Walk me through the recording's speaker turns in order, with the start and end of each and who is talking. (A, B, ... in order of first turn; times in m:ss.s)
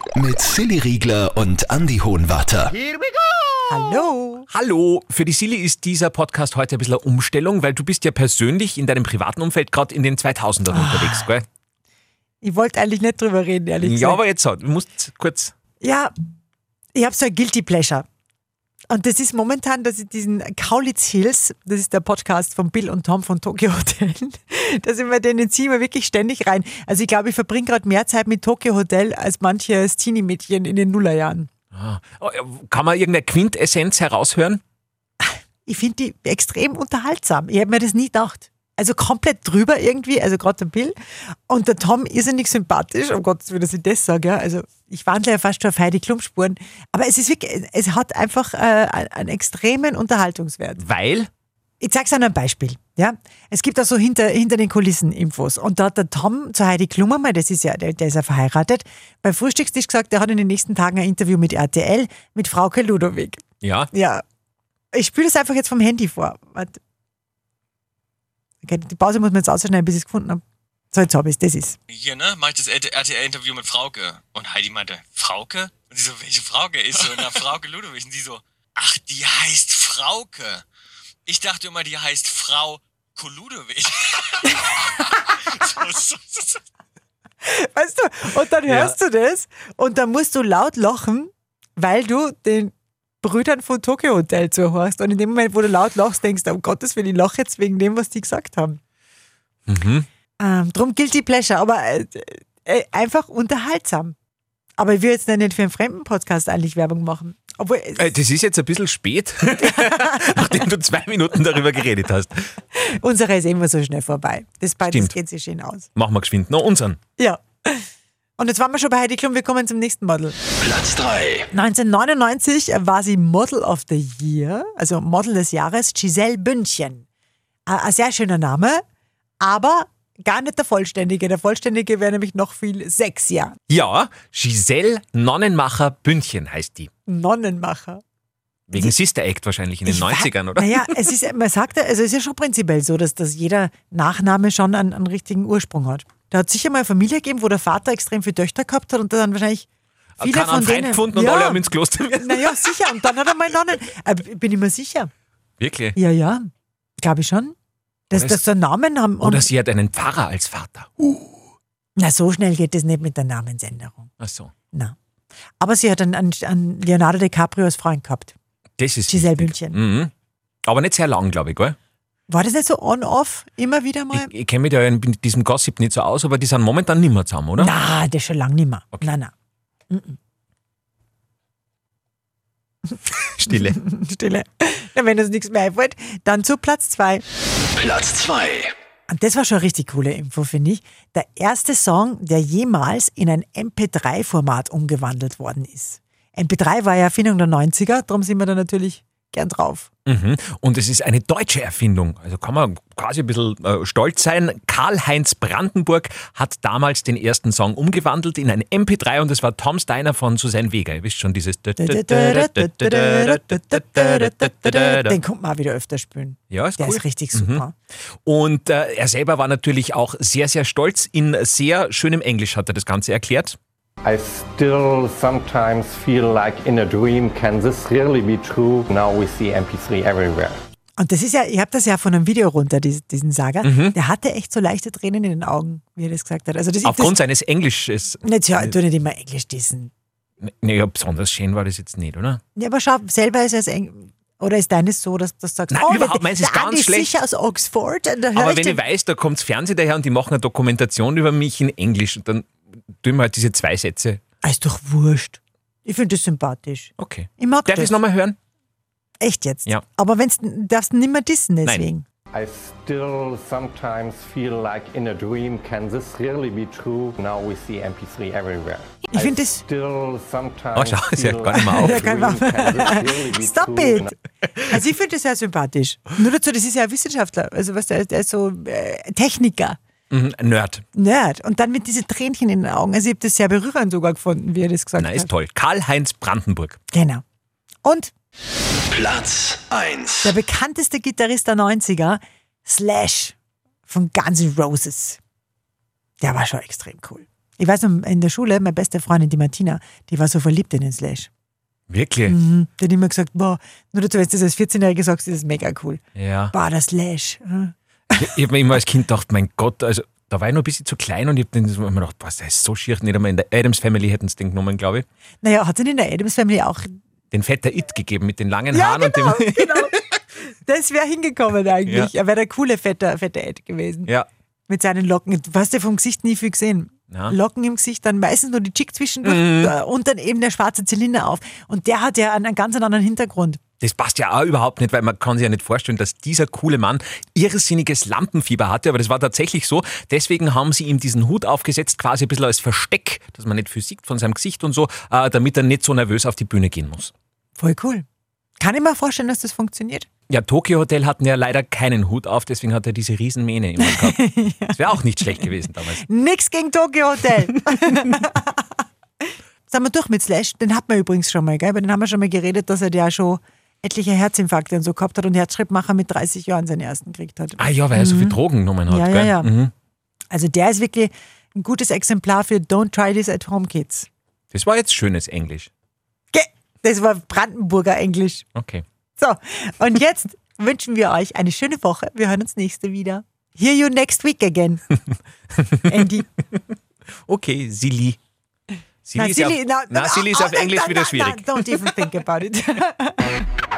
0:00.2-0:02.8 A
0:03.7-0:04.5 B
0:04.5-0:11.4 C
0:10.7-0:11.3 B
0:12.4-0:14.2 B
0:13.8-0:15.5 C
0:15.8-0:16.1 B
0:16.9-0:18.0 B
0:18.9-0:31.5 B
0:31.7-0:34.6 C
0:35.2-0:50.8 B
0:50.8-0:51.3 C
0:51.8-1:04.2 B
1:03.6-1:03.9 C
1:04.9-1:06.8 B
1:08.6-1:11.8 B
1:11.9-1:20.6 D
1:21.3-1:26.6 D
1:27.4-1:38.8 B
1:28.6-1:29.0 C
1:39.7-1:40.1 C
1:40.4-1:44.1 B
1:44.8-1:48.1 B
1:48.0-1:52.5 C
1:49.6-1:50.3 B
1:52.8-1:55.9 B
1:54.8-1:55.1 C
1:55.9-1:57.0 C
1:57.2-1:57.8 B
1:58.4-2:00.4 B
2:00.6-2:01.5 A
2:01.5-2:07.0 B
2:07.6-2:08.8 B
2:09.4-2:13.6 B
2:13.7-2:16.9 C
2:17.0-2:18.0 B
2:18.7-2:21.0 C
2:19.8-2:29.7 B
2:30.2-2:33.0 C
2:30.2-2:31.6 B
2:32.2-2:35.1 B
2:35.6-2:36.0 C
2:36.0-2:36.4 B
2:37.0-2:37.5 B
2:38.1-2:39.5 B
2:38.1-2:38.4 C
2:39.2-2:41.4 C
2:42.0-2:44.1 B
2:44.2-2:44.5 C
2:45.6-2:48.3 B
2:48.8-2:50.1 C
2:49.1-2:49.8 B
2:50.6-2:51.8 C
2:52.3-2:54.3 B
2:54.1-2:57.7 C
2:57.6-2:59.3 B
2:59.9-3:00.2 B
3:03.3-3:03.8 C
3:03.5-3:07.2 B
3:07.7-3:08.7 A
3:09.1-3:19.9 B
3:20.1-3:35.2 C
3:31.8-3:37.7 B
3:36.5-3:37.6 C
3:38.2-3:43.6 C
3:44.0-3:50.6 E
3:51.0-3:57.2 B
3:53.6-3:54.0 C
3:56.8-3:58.7 C
3:58.2-3:59.9 B
4:00.4-4:02.4 C
4:02.6-4:08.8 B
4:05.7-4:07.1 C
4:08.3-4:14.2 C
4:14.4-4:18.0 B
4:17.0-4:18.4 C
4:19.2-4:22.0 B
4:22.3-4:34.1 E
4:29.1-4:29.6 B
4:30.7-4:32.1 C
4:31.5-4:39.8 B
4:40.1-4:40.8 C
4:40.9-4:45.3 B
4:45.0-4:46.8 C
4:46.9-4:47.2 B
4:47.8-4:48.1 B
4:48.9-4:50.3 A
4:50.2-4:53.4 B
4:53.9-4:55.2 B
4:56.2-5:01.3 B
5:01.9-5:02.4 C
5:02.2-5:06.0 B
5:06.2-5:06.5 C
5:06.5-5:08.3 B
5:08.1-5:15.0 C
5:15.4-5:16.9 B
5:17.3-5:19.9 C
5:18.7-5:24.1 B
5:24.7-5:33.6 B
5:27.1-5:27.4 C
5:29.2-5:29.7 C
5:33.8-5:47.1 C
5:47.6-5:48.0 B
5:48.6-5:50.1 B
5:50.3-5:56.0 C
5:53.8-5:58.7 B
5:59.7-6:09.5 B
6:07.6-6:09.7 C
6:10.3-6:14.1 B
6:14.5-6:15.7 C
6:16.3-6:18.4 B
6:18.5-6:18.8 C
6:19.2-6:24.8 B
6:25.7-6:26.0 C
6:25.8-6:26.3 B
6:27.3-6:28.2 C
6:29.0-6:31.9 C
6:29.2-6:33.3 B